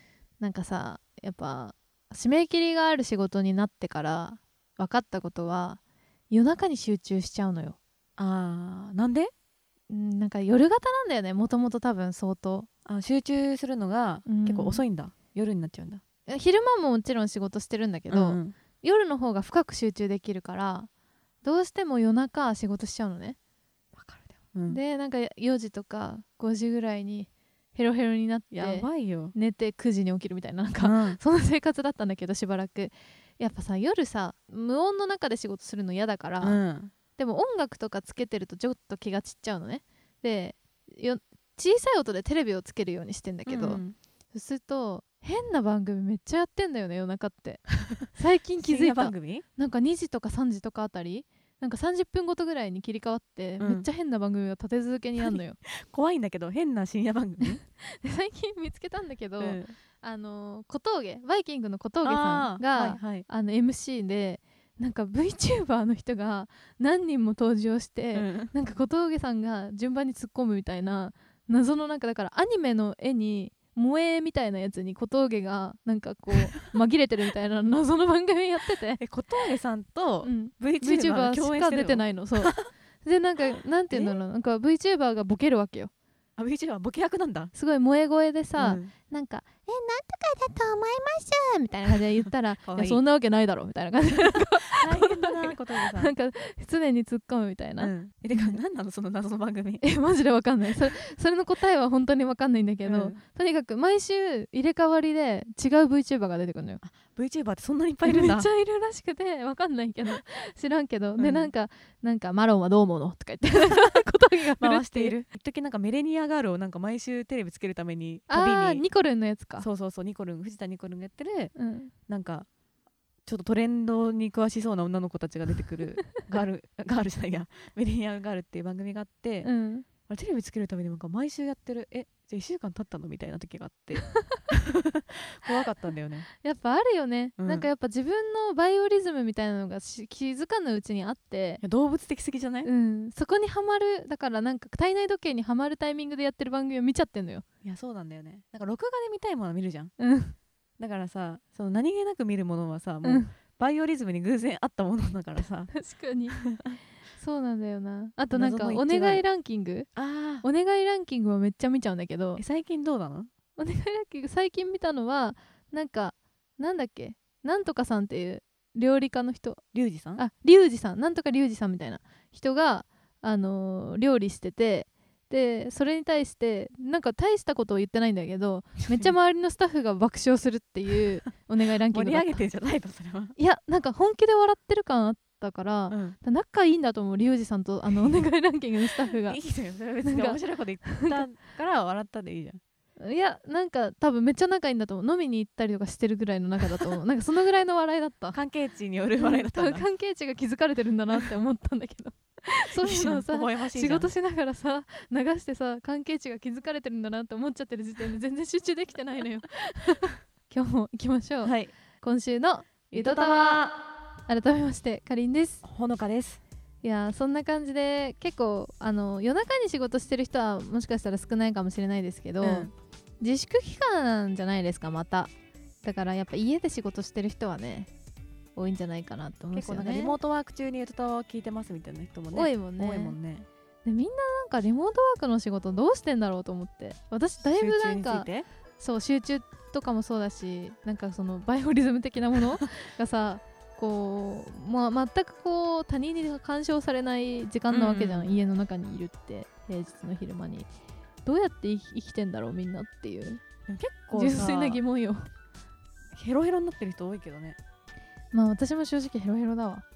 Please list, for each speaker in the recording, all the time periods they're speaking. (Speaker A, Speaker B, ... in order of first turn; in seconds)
Speaker A: 0.4-7.8, 9.9-12.7, 14.2-14.8, 16.3-20.9, 21.4-23.4, 24.7-36.6, 37.2-55.6, 57.9-79.0, 80.2-85.9, 87.5-98.6, 99.8-106.8, 108.0-115.1, 118.3-119.7, 121.5-121.9, 129.4-129.8, 136.3-141.6, 142.6-147.4, 150.0-150.3, 153.0-153.3, 155.7-156.6, 157.2-159.9, 160.4-162.4, 163.6-169.6, 170.2-182.5, 183.3-189.4, 190.0-191.2, 193.0-198.4, 199.2-213.7, 214.3-215.6, 216.8-225.3, 225.8-227.9, 228.6-230.2, 232.3-233.2, 233.8-250.7, 251.2-253.4, 254.1-255.3, 258.3-259.8
Speaker B: 8.2-9.3, 12.8-16.0, 18.1-18.6, 23.9-24.8, 28.5-29.3, 30.8-31.2, 36.4-36.9, 43.5-44.0, 48.6-49.4, 53.6-53.9, 55.2-57.6, 59.4-59.7, 62.0-63.2, 68.1-68.5, 79.0-82.7, 83.9-84.2, 86.4-87.5, 88.6-88.9, 92.6-93.0, 94.7-96.1, 97.8-99.8, 102.8-103.2, 106.8-108.5, 111.2-111.5, 114.6-118.8, 119.6-121.5, 122.1-122.5, 123.2-129.5, 130.1-136.3, 137.4-137.7, 141.6-142.7, 147.6-149.9, 150.8-155.7, 158.3-159.2, 159.9-160.4, 162.4-163.3, 169.7-170.2, 181.9-183.3, 185.9-186.2, 189.1-192.6, 198.3-199.8, 202.7-204.1, 211.4-211.7, 212.9-213.8, 215.6-216.4, 222.4-222.7, 229.5-233.5, 237.5-238.4, 247.7-248.3, 253.7-254.8, 256.1-257.6